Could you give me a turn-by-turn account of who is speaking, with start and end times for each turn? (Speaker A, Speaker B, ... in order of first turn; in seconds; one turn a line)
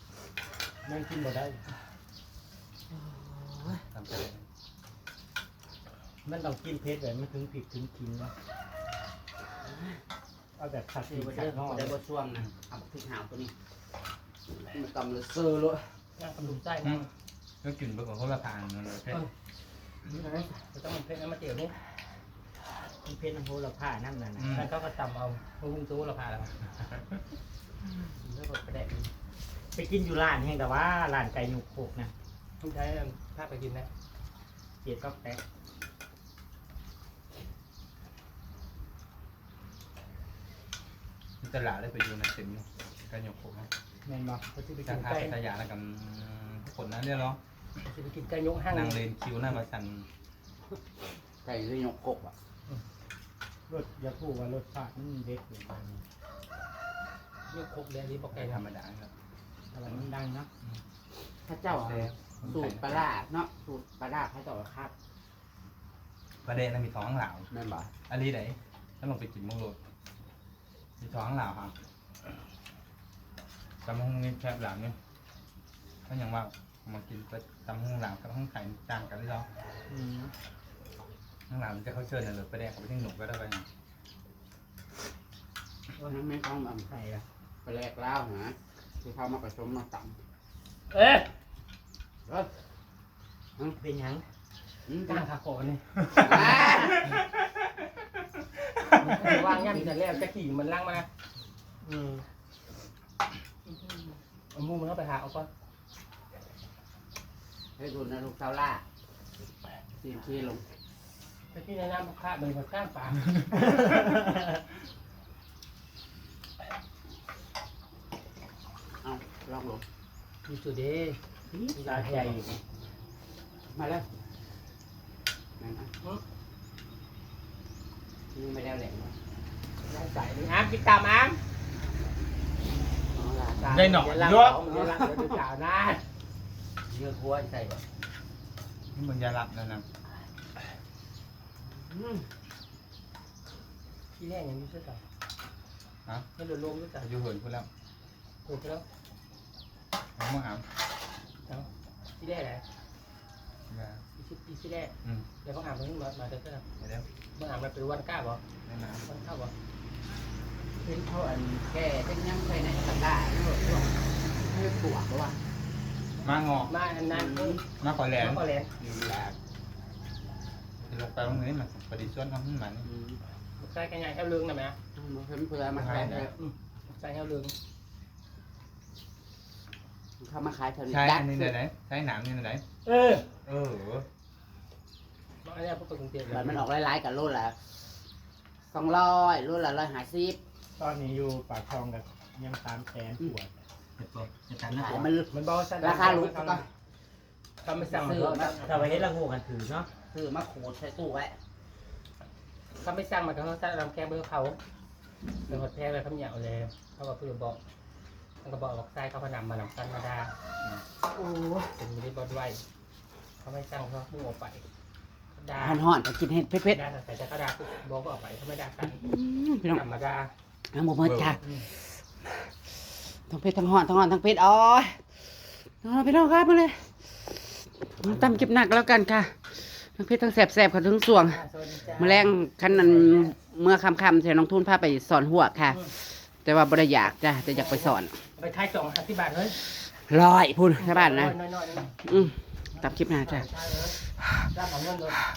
Speaker A: 0.9-1.6
Speaker B: 2.9-3.8
Speaker C: 3.7-4.5
Speaker A: 6.3-8.3
Speaker B: 9.6-10.0
Speaker A: 10.6-11.8
Speaker B: 11.1-13.5
Speaker B: 14.5-16.0
Speaker D: 16.2-17.1
Speaker C: 17.6-19.2
Speaker B: 20.1-20.5
Speaker D: 20.6-21.7
Speaker A: 23.1-24.4
Speaker C: 24.4-24.7
Speaker D: 24.5-26.6
Speaker D: 28.3-29.0
Speaker A: 29.8-32.1
Speaker D: 32.6-33.9
Speaker A: 34.9-35.4
Speaker C: 41.4-44.2
Speaker A: 44.1-44.4
Speaker C: 44.8-47.4
Speaker D: 44.9-45.4
Speaker D: 47.8-49.0
Speaker C: 48.7-50.1
Speaker B: 51.4-52.3
Speaker A: 53.7-55.7
Speaker D: 57.5-58.6
Speaker C: 58.3-59.1
Speaker C: 59.8-60.1
Speaker A: 59.9-60.4
Speaker B: 61.5-64.9
Speaker C: 61.7-63.0
Speaker C: 66.4-67.5
Speaker B: 67.5-67.9
Speaker C: 68.1-69.8
Speaker C: 71.0-71.7
Speaker C: 73.8-75.0
Speaker C: 76.1-79.5
Speaker C: 81.5-83.7
Speaker B: 86.0-86.9
Speaker B: 87.6-90.2
Speaker D: 90.9-91.3
Speaker A: 93.8-94.1
Speaker B: 94.9-95.2
Speaker D: 95.1-97.0
Speaker B: 96.2-97.1
Speaker D: 99.0-101.1
Speaker B: 99.3-99.9
Speaker D: 101.8-102.3
Speaker D: 103.7-105.5
Speaker B: 107.8-108.8
Speaker B: 110.0-110.6
Speaker D: 111.5-113.3
Speaker B: 119.0-119.8
Speaker D: 120.5-121.2
Speaker B: 121.5-122.0
Speaker D: 121.7-122.4
Speaker B: 123.7-124.1
Speaker B: 125.6-125.9
Speaker B: 128.3-129.2
Speaker D: 129.8-131.4
Speaker B: 133.1-133.9
Speaker D: 133.6-136.0
Speaker C: 133.7-134.6
Speaker B: 134.7-135.3
Speaker B: 136.9-137.8
Speaker C: 138.9-139.8
Speaker B: 141.7-142.3
Speaker D: 144.2-145.0
Speaker D: 146.4-147.1
Speaker C: 147.0-147.7
Speaker D: 148.4-148.8
Speaker C: 150.2-150.7
Speaker D: 151.5-152.6
Speaker C: 153.7-154.0
Speaker D: 154.2-156.7
Speaker C: 156.8-157.1
Speaker D: 157.4-158.4
Speaker C: 158.7-159.1
Speaker D: 159.1-159.5
Speaker B: 160.8-165.4
Speaker C: 166.2-166.7
Speaker D: 166.7-167.6
Speaker B: 167.1-167.7
Speaker C: 167.7-169.4
Speaker D: 168.2-168.7
Speaker C: 170.8-172.8
Speaker B: 172.8-173.2
Speaker D: 173.6-174.8
Speaker B: 175.0-176.3
Speaker C: 175.7-176.3
Speaker D: 176.3-177.5
Speaker B: 180.2-181.6
Speaker C: 180.9-182.6
Speaker D: 182.8-183.2
Speaker C: 183.4-184.1
Speaker D: 185.4-186.6
Speaker B: 186.3-187.7
Speaker B: 188.7-190.4
Speaker A: 190.8-193.3
Speaker C: 194.0-195.1
Speaker B: 194.7-196.7
Speaker D: 195.3-196.6
Speaker D: 197.6-198.9
Speaker B: 197.8-199.1
Speaker A: 198.7-199.9
Speaker B: 200.1-201.3
Speaker D: 202.8-204.6
Speaker D: 205.5-207.6
Speaker D: 208.4-210.3
Speaker B: 211.0-211.7
Speaker D: 211.8-212.6
Speaker D: 213.4-214.6
Speaker D: 215.3-215.8
Speaker B: 215.6-216.8
Speaker D: 216.7-219.0
Speaker B: 218.8-219.8
Speaker D: 219.7-220.3
Speaker B: 220.7-221.8
Speaker C: 221.0-221.3
Speaker B: 223.3-225.0
Speaker B: 225.8-227.4
Speaker B: 228.0-231.4
Speaker D: 231.3-233.3
Speaker B: 232.0-238.2
Speaker D: 237.5-239.6
Speaker B: 240.1-241.4
Speaker D: 240.8-241.9
Speaker B: 242.0-243.5
Speaker D: 243.3-243.9
Speaker D: 244.5-245.2